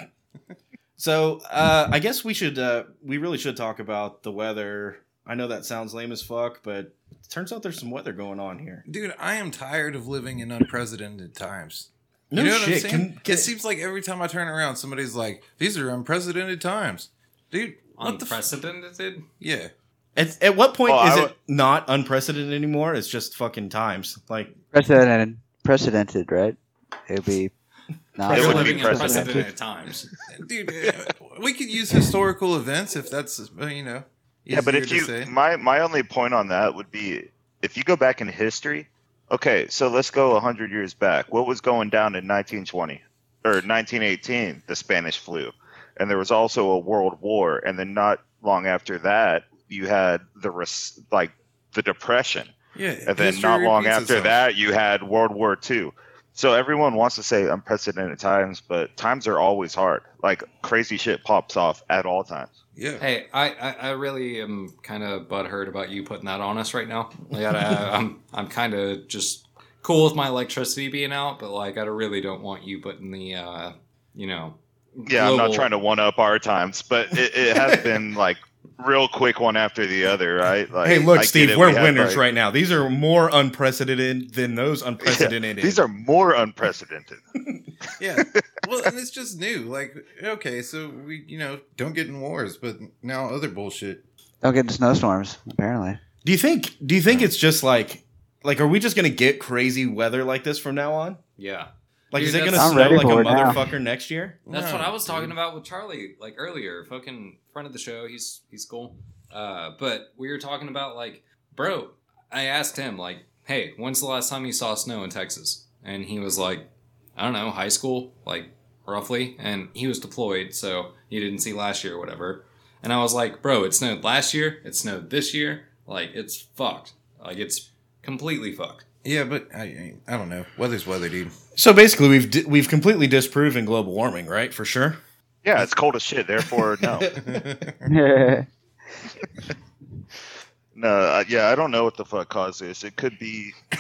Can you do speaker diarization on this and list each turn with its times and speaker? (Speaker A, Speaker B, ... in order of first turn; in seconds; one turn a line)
Speaker A: 1.0-8.8
Speaker B: 8.9-18.4
Speaker A: 12.3-13.5
Speaker C: 18.0-19.3
Speaker B: 19.4-19.7
Speaker A: 20.2-24.5
Speaker D: 20.9-21.3
Speaker E: 24.7-27.5
Speaker E: 28.2-29.5
Speaker D: 28.3-29.4
Speaker C: 28.3-30.1
Speaker B: 30.3-35.3
Speaker D: 34.5-52.5
Speaker B: 52.8-54.4
Speaker D: 53.1-62.6
Speaker B: 62.8-63.0
Speaker C: 63.0-75.7
Speaker D: 75.1-82.2
Speaker A: 77.5-77.9
Speaker A: 80.8-85.8
Speaker D: 85.0-87.2
Speaker B: 88.0-94.0
Speaker E: 94.4-96.0
Speaker A: 96.2-101.2
Speaker C: 101.4-103.2
Speaker A: 102.1-104.4
Speaker E: 102.5-103.6
Speaker B: 104.5-105.3
Speaker C: 104.5-128.8
Speaker B: 129.0-131.3
Speaker A: 131.6-135.0
Speaker D: 135.4-137.1
Speaker A: 136.8-137.4
Speaker B: 137.2-137.9
Speaker E: 137.8-138.5
Speaker D: 140.7-143.5